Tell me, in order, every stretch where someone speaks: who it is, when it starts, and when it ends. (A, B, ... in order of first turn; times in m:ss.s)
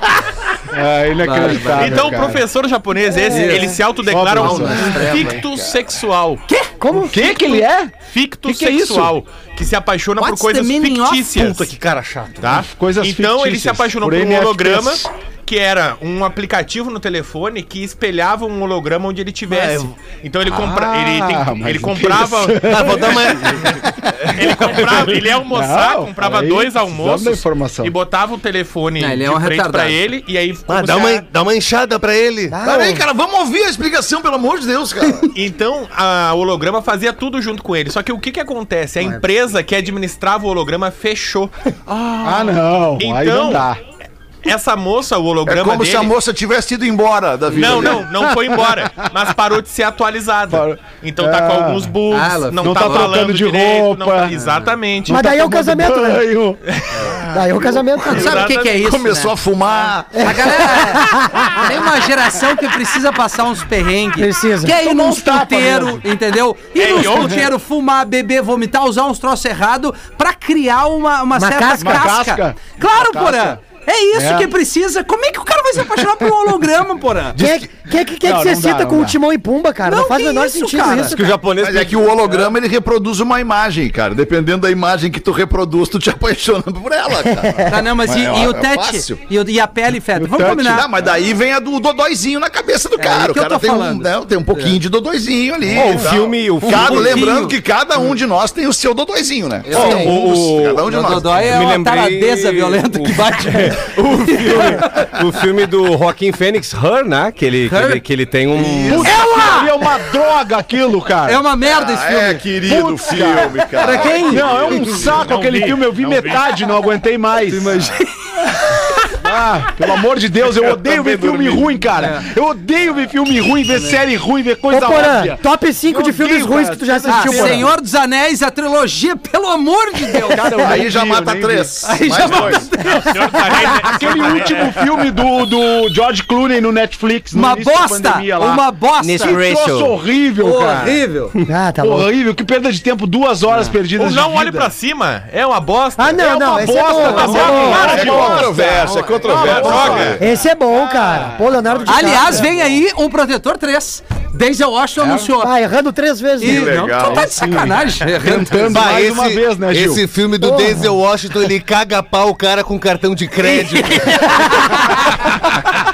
0:00.7-0:02.4 A
0:01.2-0:02.2 B
0:01.8-0:06.4 C
0:03.2-0:05.4 B
0:04.1-0:05.4 A
0:06.5-0:06.7 B
0:06.8-0:07.5 D
0:07.1-0:07.9 A
0:08.0-0:11.7 C
0:08.4-0:09.1 A
0:10.2-0:11.4 B
0:11.3-0:12.5 E
0:12.4-0:23.2 C
0:12.5-0:15.1 A
0:19.5-0:19.9 E
0:20.5-0:27.9 A
0:22.6-0:24.7 E
0:24.3-0:31.2 C
0:29.0-0:30.0 B
0:30.7-0:32.6 E
0:32.5-0:33.0 D
0:32.6-0:35.3 F
0:35.3-0:41.5 C
0:41.9-0:43.8 A
0:43.0-0:43.7 C
0:44.4-0:46.1 C
0:45.4-0:48.1 F
0:47.5-0:55.2 C
0:50.5-0:51.9 A
0:52.1-0:53.2 B
0:52.6-0:54.4 A
0:55.1-0:56.6 A
0:55.1-0:56.3 D
0:56.7-0:57.2 C
0:57.3-0:58.4 D
0:58.0-0:59.4 B
0:58.1-0:58.8 C
0:58.6-1:00.7 F
1:00.2-1:17.4 B
1:00.2-1:01.6 D
1:04.2-1:04.8 D
1:04.8-1:06.0 A
1:06.8-1:07.5 C
1:11.4-1:12.2 D
1:11.8-1:13.6 A
1:14.1-1:14.5 A
1:17.4-1:21.4 D
1:17.4-1:17.6 A
1:18.2-1:19.2 A
1:19.8-1:21.2 B
1:21.1-1:22.2 E
1:21.6-1:29.2 F
1:27.7-1:30.9 B
1:30.1-1:30.8 A
1:30.4-1:41.5 F
1:33.0-1:34.8 B
1:35.7-1:37.4 G
1:35.8-1:36.6 E
1:36.6-1:37.6 B
1:39.6-1:40.2 B
1:39.7-1:40.9 G
1:40.8-1:45.1 B
1:41.4-1:49.1 G
1:47.3-1:48.4 E
1:47.7-1:48.0 B
1:48.5-1:49.5 F
1:48.9-1:51.4 A
1:49.0-1:49.8 B
1:51.2-1:52.4 B
1:51.6-1:55.1 F
1:52.6-1:58.0 A
1:53.7-1:55.1 B
1:55.1-1:56.5 C
1:57.5-1:58.0 B
1:59.1-2:07.7 A
2:00.8-2:01.7 F
2:02.0-2:02.2 B
2:03.7-2:04.0 B
2:04.7-2:07.7 D
2:07.1-2:10.8 B
2:10.2-2:12.5 A
2:10.6-2:12.7 F
2:11.8-2:13.8 B
2:12.9-2:15.1 C
2:13.6-2:18.7 A
2:17.3-2:19.4 B
2:19.0-2:21.3 E
2:19.2-2:21.0 A
2:20.4-2:21.1 B
2:21.5-2:22.1 D
2:21.8-2:24.7 A
2:23.9-2:28.3 C
2:26.0-2:28.5 D
2:26.2-2:30.4 A
2:27.2-2:27.6 B
2:27.3-2:30.2 F
2:29.3-2:30.2 C
2:30.2-2:32.5 D
2:30.9-2:31.8 A
2:31.8-2:35.5 B
2:35.0-2:35.3 A
2:35.4-2:36.9 D
2:36.4-2:38.9 B
2:36.4-2:37.3 F
2:37.0-2:40.0 A
2:38.7-2:44.4 E
2:40.4-2:40.9 D
2:43.4-2:44.6 D